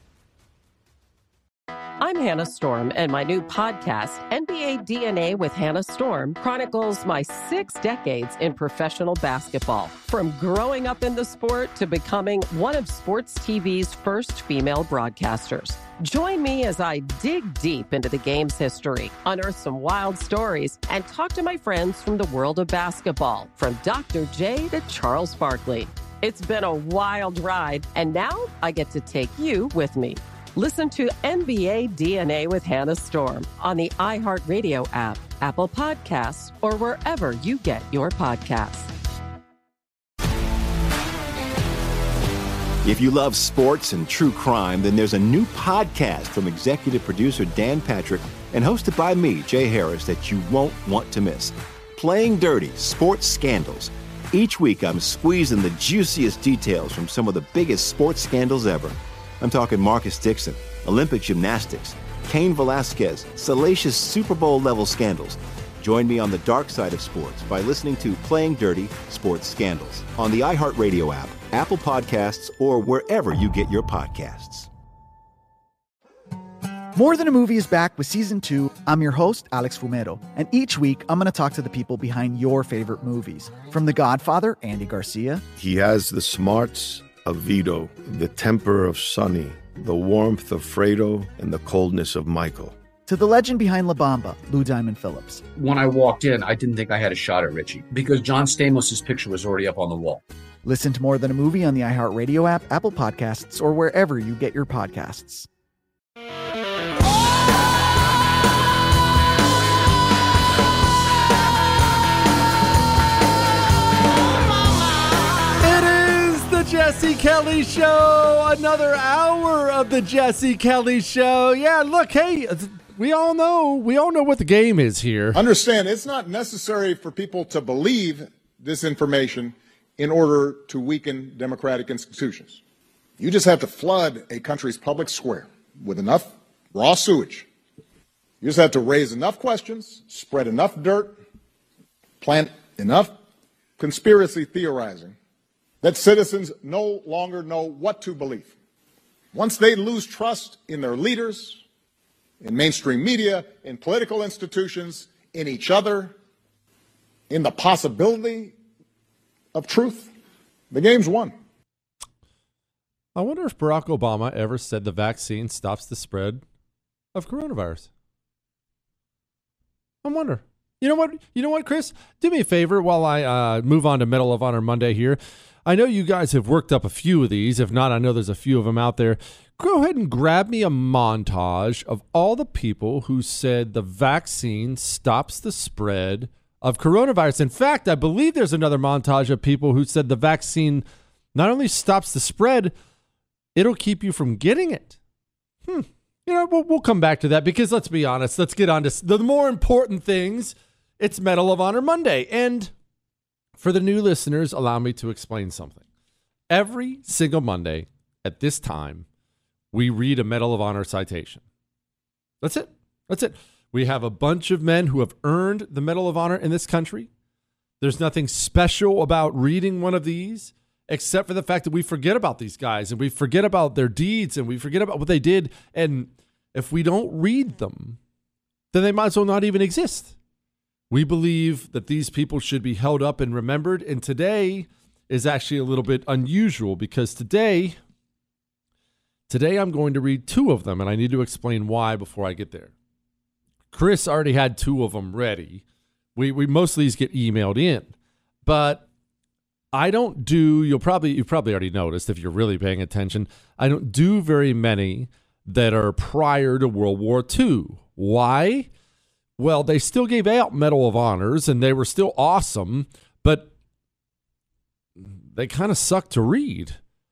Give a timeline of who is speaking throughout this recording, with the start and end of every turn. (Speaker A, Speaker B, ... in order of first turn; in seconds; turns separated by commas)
Speaker A: 2.0-38.9, Speaker B: 42.8-74.7, Speaker C: 77.0-85.4, Speaker D: 85.5-92.8, Speaker C: 93.1-95.4, Speaker E: 95.5-100.2, Speaker C: 100.7-105.5, Speaker F: 115.6-125.4, Speaker G: 125.3-132.6, Speaker G: 133.2-137.5, Speaker G: 138.4-141.2, Speaker G: 142.2-143.1, Speaker G: 143.8-145.2, Speaker G: 145.8-148.6, Speaker G: 149.3-151.6, Speaker G: 152.4-156.1, Speaker G: 157.3-158.6, Speaker G: 159.5-160.1, Speaker G: 160.7-161.3, Speaker F: 163.2-166.4, Speaker F: 167.1-167.9, Speaker F: 170.0-192.7, Speaker F: 193.6-195.0, Speaker F: 195.7-202.7, Speaker F: 203.6-205.8, Speaker F: 206.5-209.1, Speaker F: 209.7-211.4, Speaker F: 212.4-217.1, Speaker F: 217.8-228.0, Speaker F: 228.7-230.2, Speaker F: 230.9-237.8, Speaker F: 239.3-242.7, Speaker F: 243.7-245.6, Speaker F: 246.2-247.9, Speaker F: 248.4-248.8, Speaker F: 249.7-258.7, Speaker F: 259.4-263.5, Speaker F: 265.1-266.8